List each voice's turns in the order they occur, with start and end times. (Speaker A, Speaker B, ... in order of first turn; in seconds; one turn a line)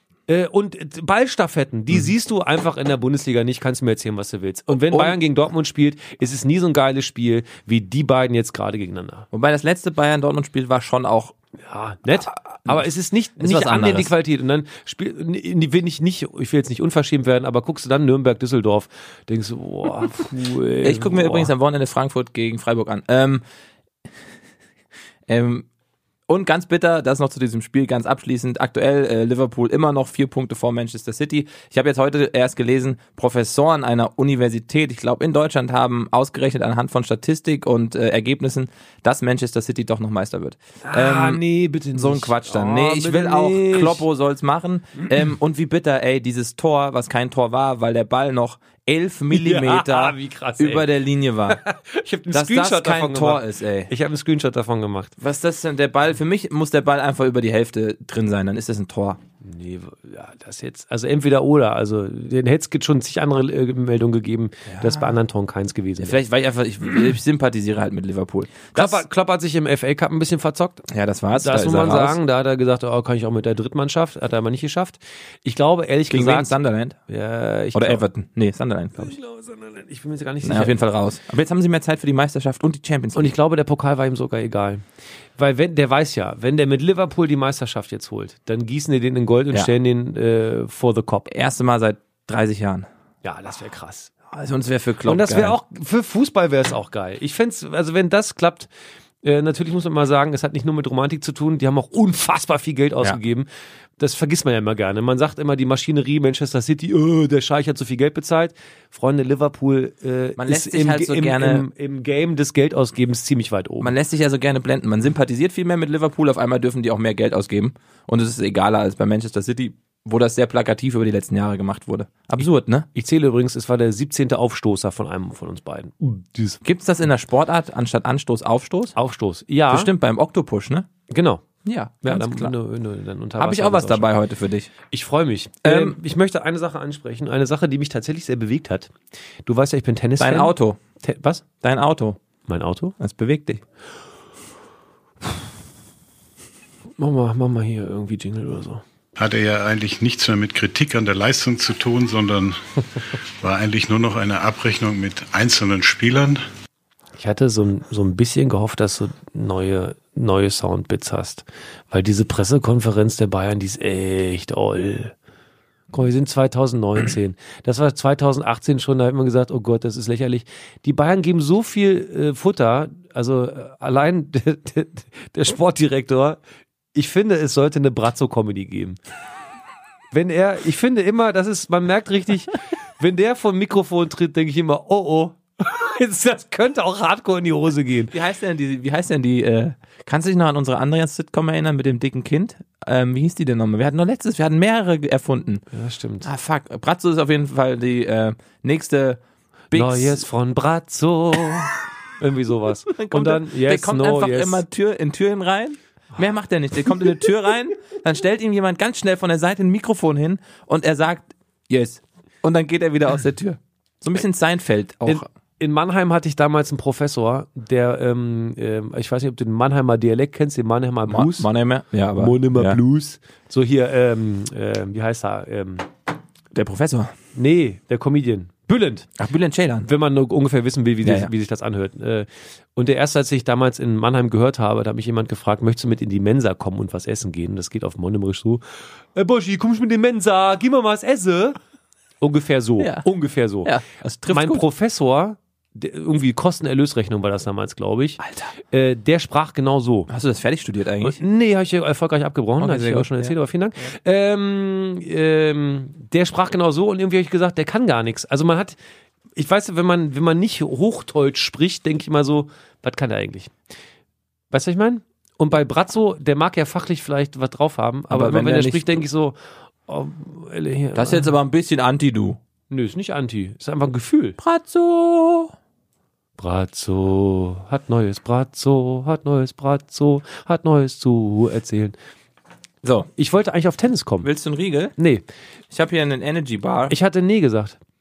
Speaker A: 0.3-9.3
Speaker B: 4.8-5.2
Speaker B: 9.3-11.3
Speaker A: 11.6-21.5
Speaker B: 13.4-14.1
Speaker B: 20.8-23.4
Speaker B: 25.3-25.7
Speaker B: 26.3-41.4
Speaker A: 40.8-44.0
Speaker B: 41.9-51.6
Speaker A: 49.3-50.9
Speaker A: 51.5-55.1
Speaker B: 52.3-53.9
Speaker B: 55.2-59.2
Speaker A: 59.4-66.2
Speaker B: 64.7-65.1
Speaker B: 66.0-69.0
Speaker A: 68.7-76.6
Speaker B: 70.9-72.2
Speaker B: 76.1-77.0
Speaker A: 77.1-78.0
Speaker B: 77.8-79.2
Speaker A: 79.0-80.8
Speaker B: 80.4-83.3
Speaker A: 83.2-84.8
Speaker A: 85.4-91.3
Speaker B: 91.3-92.9
Speaker A: 93.2-94.1
Speaker B: 94.3-95.6
Speaker A: 95.0-98.7
Speaker A: 99.2-103.5
Speaker A: 104.0-113.9
Speaker B: 110.4-111.7
Speaker B: 113.8-122.9
Speaker A: 122.9-126.6
Speaker B: 126.6-129.0
Speaker A: 128.9-129.9
Speaker B: 129.7-130.9
Speaker A: 131.1-131.4
Speaker B: 131.6-132.6
Speaker A: 132.0-134.1
Speaker B: 133.4-134.7
Speaker A: 134.9-138.9
Speaker B: 135.6-136.0
Speaker A: 139.5-141.4
Speaker B: 140.2-140.8
Speaker B: 141.6-142.2
Speaker A: 142.5-143.0
Speaker B: 143.0-143.6
Speaker A: 147.0-148.8
Speaker C: 149.2-152.8
Speaker C: 153.4-156.4
Speaker A: 157.2-165.1
Speaker A: 165.9-176.4
Speaker A: 176.9-179.0
Speaker A: 180.1-188.1
Speaker B: 188.1-195.6
Speaker A: 195.7-196.3
Speaker B: 196.2-200.2
Speaker A: 199.7-204.6
Speaker B: 202.9-215.2
Speaker A: 215.1-221.5
Speaker B: 221.1-222.8
Speaker A: 222.2-225.9
Speaker B: 226.5-227.1
Speaker A: 227.3-229.1
Speaker B: 229.2-229.9
Speaker A: 229.9-238.6
Speaker B: 231.0-231.3
Speaker A: 239.2-241.6
Speaker A: 242.2-243.7
Speaker B: 242.8-243.1
Speaker B: 243.6-244.7
Speaker A: 244.3-250.1
Speaker B: 248.2-248.5
Speaker B: 250.1-251.2
Speaker A: 251.0-258.8
Speaker B: 252.6-253.3
Speaker A: 259.4-263.5
Speaker A: 264.5-269.4
Speaker B: 268.1-269.0
Speaker A: 269.9-271.3
Speaker B: 270.9-272.4
Speaker A: 272.7-274.4
Speaker B: 274.4-275.5
Speaker A: 276.4-282.0
Speaker B: 282.8-283.1
Speaker A: 283.2-284.3
Speaker B: 284.2-284.9
Speaker A: 285.0-285.2
Speaker B: 285.7-286.9
Speaker A: 286.9-287.8